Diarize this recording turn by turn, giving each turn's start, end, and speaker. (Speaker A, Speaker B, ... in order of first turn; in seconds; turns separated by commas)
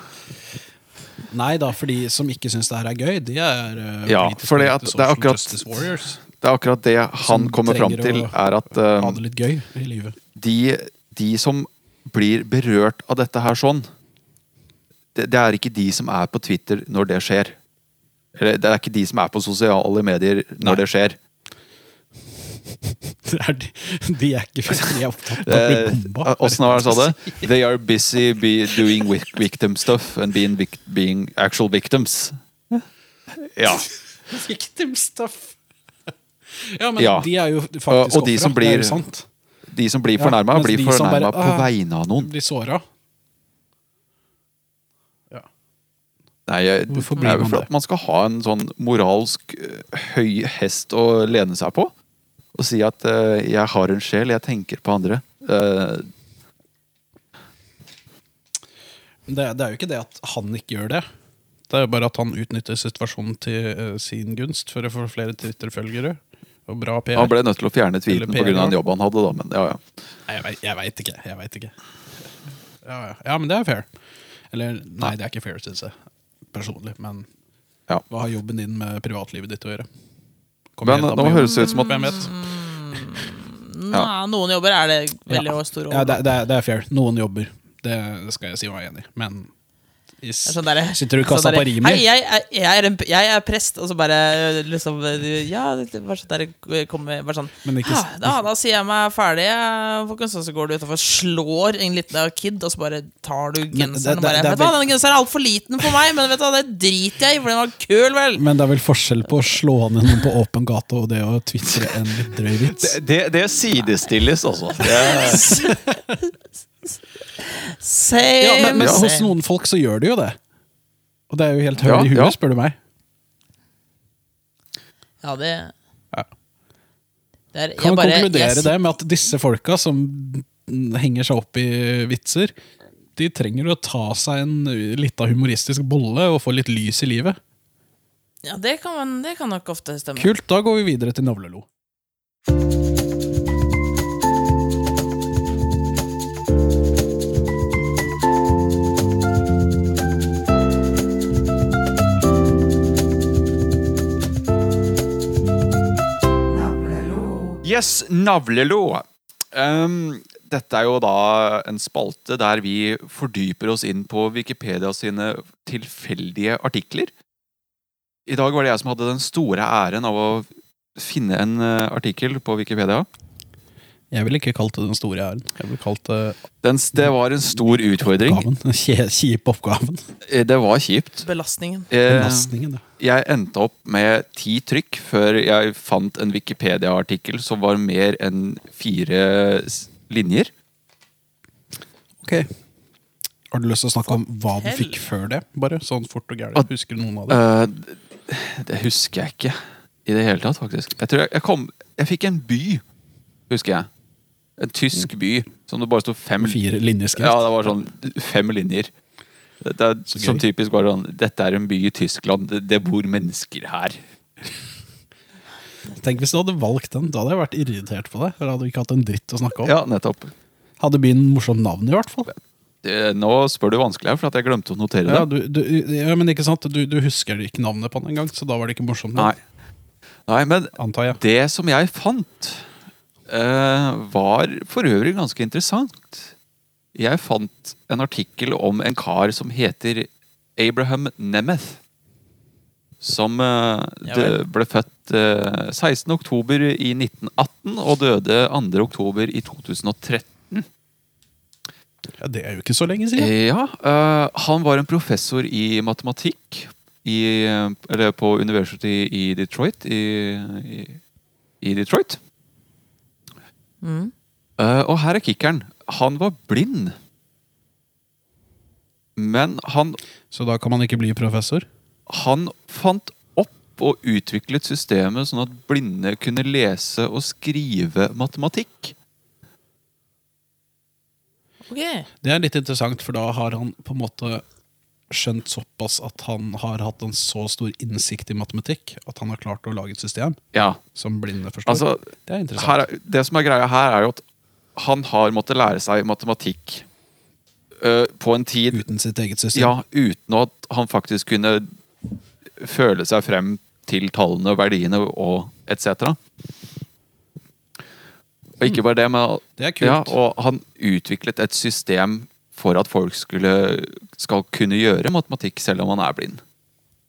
Speaker A: 1.3-6.2, Speaker B: 4.0-9.2, Speaker A: 7.2-10.2, Speaker B: 10.3-13.9, Speaker B: 15.1-17.6, Speaker B: 18.4-21.2, Speaker A: 22.7-27.5, Speaker B: 25.4-32.8, Speaker B: 33.4-33.9, Speaker A: 34.3-35.5, Speaker A: 36.5-39.3, Speaker B: 37.0-37.3, Speaker B: 37.9-39.0, Speaker B: 39.7-42.3, Speaker A: 40.1-42.8, Speaker B: 46.5-51.9, Speaker A: 46.9-47.7, Speaker B: 52.5-56.1, Speaker A: 59.3-61.0, Speaker A: 61.7-67.3, Speaker B: 67.1-69.8, Speaker A: 68.1-68.8, Speaker A: 70.3-71.7, Speaker A: 72.8-73.9, Speaker A: 74.5-75.9, Speaker A: 76.5-77.3, Speaker A: 78.1-79.9, Speaker A: 80.8-82.3, Speaker B: 80.8-82.2, Speaker C: 81.4-86.2, Speaker A: 85.3-89.5, Speaker A: 90.2-92.0, Speaker C: 90.5-108.4, Speaker A: 97.6-98.4, Speaker A: 103.7-104.8, Speaker A: 108.3-113.0, Speaker B: 112.5-115.6, Speaker C: 114.9-115.8, Speaker A: 115.0-116.1, Speaker C: 117.4-119.3, Speaker A: 118.4-120.4, Speaker B: 118.7-119.1, Speaker A: 121.3-122.8, Speaker B: 121.8-122.3, Speaker C: 125.2-125.7, Speaker C: 127.5-128.7, Speaker A: 127.8-132.5, Speaker A: 133.2-137.4, Speaker C: 138.4-140.3, Speaker A: 140.2-141.7, Speaker B: 157.6-167.1, Speaker B: 168.3-173.1, Speaker A: 174.1-176.4, Speaker B: 176.6-178.4, Speaker A: 178.0-180.1, Speaker B: 180.2-181.2, Speaker C: 181.2-181.9, Speaker B: 181.9-190.5, Speaker A: 182.1-182.8, Speaker A: 192.2-192.5, Speaker A: 193.5-197.4, Speaker C: 194.6-195.0, Speaker B: 197.3-202.8, Speaker B: 203.5-203.9, Speaker B: 204.6-206.6, Speaker A: 206.4-207.5, Speaker B: 207.1-208.9, Speaker B: 209.6-214.0, Speaker A: 210.1-210.4, Speaker A: 215.9-219.7, Speaker B: 219.6-220.3, Speaker A: 220.8-222.3, Speaker B: 222.8-225.3, Speaker A: 225.1-229.3, Speaker B: 230.3-232.6, Speaker A: 230.8-231.2, Speaker B: 233.3-236.3, Speaker B: 236.9-241.8, Speaker B: 243.0-250.7, Speaker C: 244.0-244.4, Speaker A: 252.2-253.3, Speaker B: 253.2-261.0, Speaker B: 261.6-262.2, Speaker C: 263.8-264.1, Speaker B: 264.6-266.9, Speaker B: 269.1-270.0, Speaker A: 270.3-271.6, Speaker B: 272.1-278.9, Speaker C: 281.7-282.1, Speaker A: 282.2-284.4, Speaker A: 285.1-290.4, Speaker B: 290.5-290.8, Speaker A: 290.9-292.8, Speaker B: 291.6-294.2, Speaker B: 294.8-296.9, Speaker B: 297.8-298.8, Speaker A: 298.7-299.7, Speaker B: 299.5-301.7, Speaker B: 302.6-306.2, Speaker B: 308.6-316.4, Speaker A: 309.6-310.1